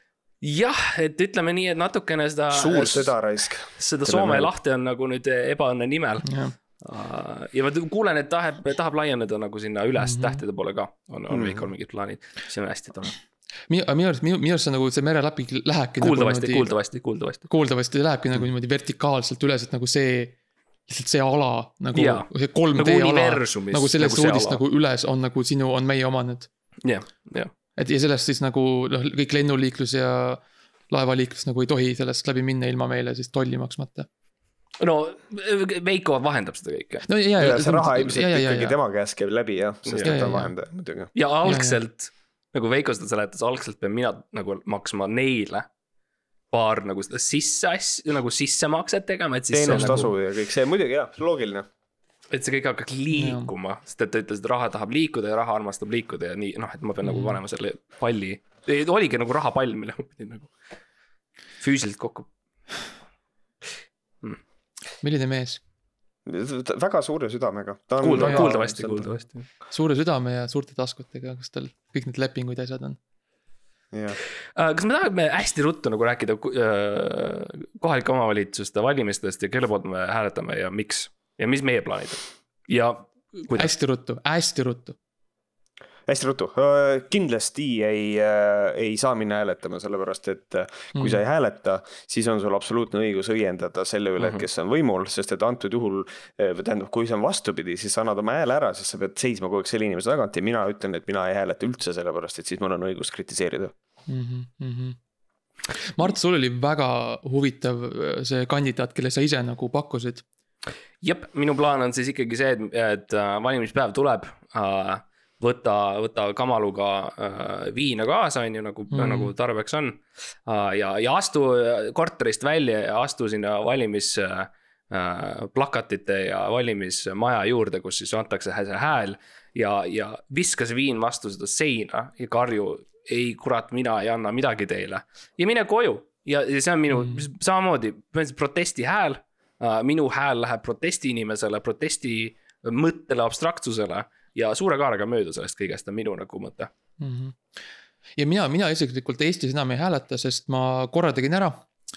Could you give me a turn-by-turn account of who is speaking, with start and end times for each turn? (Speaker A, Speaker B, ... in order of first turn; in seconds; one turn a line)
Speaker A: 0.4-3.1
Speaker B: 2.5-4.5
Speaker A: 3.8-13.2
Speaker C: 6.2-6.5
Speaker C: 10.0-10.4
Speaker B: 11.3-11.7
Speaker C: 13.7-16.7
Speaker A: 16.0-17.4
Speaker C: 17.5-26.5
Speaker A: 21.9-24.6
Speaker A: 26.8-27.5
Speaker C: 27.8-34.1
Speaker A: 34.8-37.1
Speaker C: 37.1-38.8
Speaker B: 37.4-41.1
Speaker A: 39.9-40.2
Speaker C: 40.0-40.5
Speaker A: 41.1-45.7
Speaker C: 41.4-41.8
Speaker A: 46.5-50.1
Speaker B: 49.5-51.7
Speaker C: 49.7-50.1
Speaker A: 52.3-60.5
Speaker C: 53.1-53.5
Speaker C: 57.0-57.4
Speaker A: 61.6-62.3
Speaker C: 65.0-65.6
Speaker B: 66.2-69.1
Speaker A: 68.0-69.5
Speaker C: 68.2-68.7
Speaker C: 69.7-73.0
Speaker B: 73.9-74.2
Speaker A: 74.5-83.7
Speaker C: 83.5-85.0
Speaker B: 86.1-103.7
Speaker C: 90.9-91.2
Speaker C: 104.1-105.0
Speaker C: 105.9-110.2
Speaker A: 111.0-146.7
Speaker C: 118.9-119.3
Speaker C: 147.0-147.4
Speaker C: 148.2-151.7